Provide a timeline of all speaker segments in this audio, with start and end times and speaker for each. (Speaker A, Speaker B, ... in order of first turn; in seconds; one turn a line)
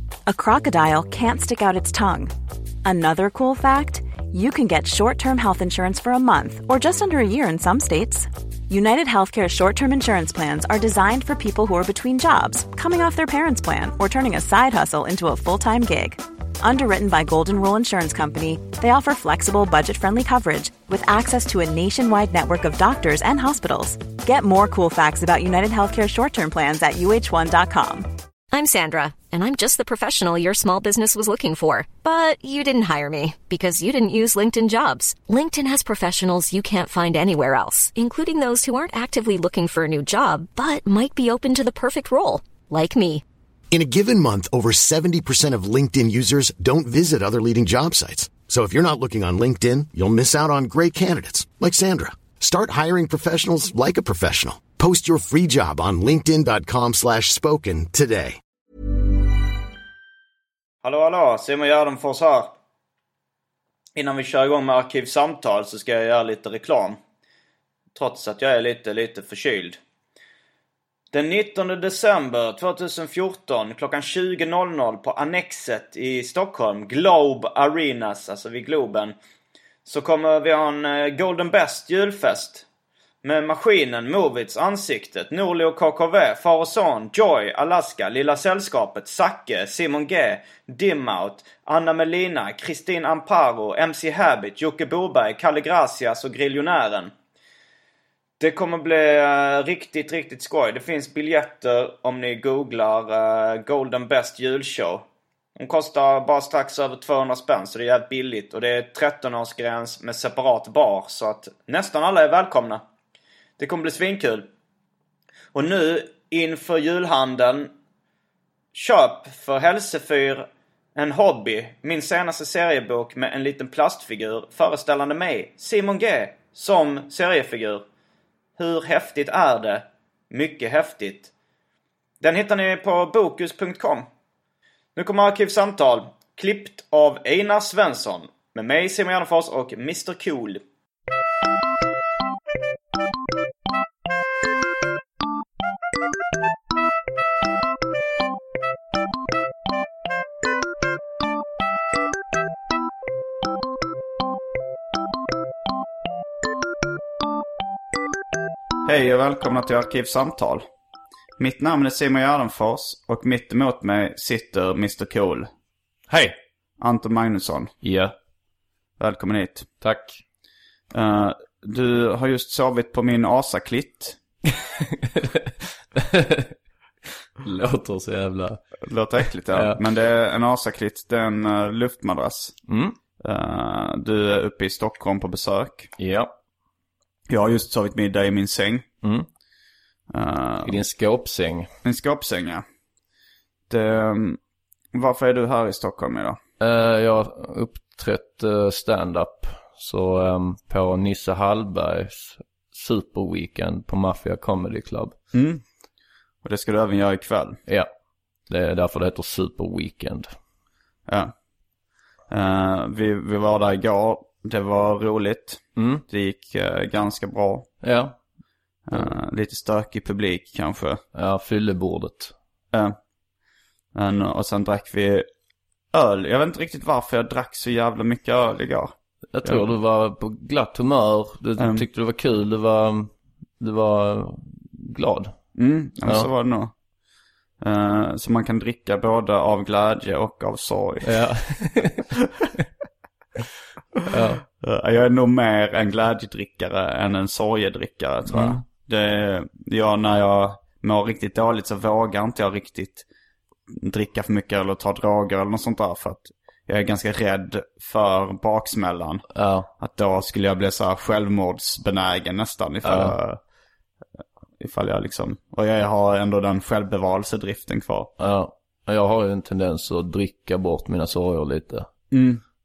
Speaker A: 0.3-2.3
Speaker A: 2.8-28.1
Speaker B: 28.5-43.2
Speaker C: 43.7-58.4
Speaker D: 60.8-62.5
Speaker D: 64.0-67.0
Speaker D: 68.0-69.8
Speaker D: 71.1-79.2
Speaker D: 79.8-82.6
Speaker D: 83.2-97.1
Speaker D: 98.4-105.0
Speaker D: 105.6-112.8
Speaker D: 113.6-114.5
Speaker D: 115.5-117.7
Speaker D: 118.7-127.8
Speaker D: 128.6-131.3
Speaker D: 132.2-134.1
Speaker D: 134.9-140.6
Speaker D: 158.8-160.6
Speaker D: 161.4-165.5
Speaker E: 166.1-166.3
Speaker D: 166.8-167.7
Speaker E: 167.8-168.1
Speaker D: 169.0-169.7
Speaker E: 169.8-170.2
Speaker D: 170.9-174.2
Speaker E: 174.8-176.5
Speaker E: 177.4-178.6
Speaker D: 178.8-182.5
Speaker E: 179.5-179.8
Speaker E: 182.7-183.0
Speaker D: 183.2-185.9
Speaker E: 186.0-186.3
Speaker D: 187.3-188.8
Speaker E: 189.0-189.3
Speaker D: 190.1-190.8
Speaker E: 190.6-191.7
Speaker D: 191.8-192.6
Speaker D: 193.7-194.4
Speaker D: 194.9-196.4
Speaker E: 196.6-205.1
Speaker D: 205.3-205.6
Speaker D: 206.4-207.6
Speaker E: 208.5-210.3
Speaker D: 211.1-211.3
Speaker D: 212.3-217.7
Speaker E: 215.8-216.0
Speaker E: 217.8-218.2
Speaker D: 218.9-221.0
Speaker E: 221.1-222.3
Speaker D: 222.7-223.0
Speaker D: 223.9-225.3
Speaker D: 225.9-229.7
Speaker E: 229.3-235.4
Speaker D: 231.6-231.8
Speaker D: 235.5-236.7
Speaker D: 237.6-241.2
Speaker E: 241.0-242.1
Speaker E: 244.1-244.4
Speaker D: 244.6-253.1
Speaker E: 248.3-248.6
Speaker D: 253.7-259.2
Speaker E: 259.3-259.7
Speaker D: 259.8-263.4
Speaker E: 262.8-263.1
Speaker D: 264.6-268.1
Speaker E: 268.2-272.1
Speaker D: 272.1-272.4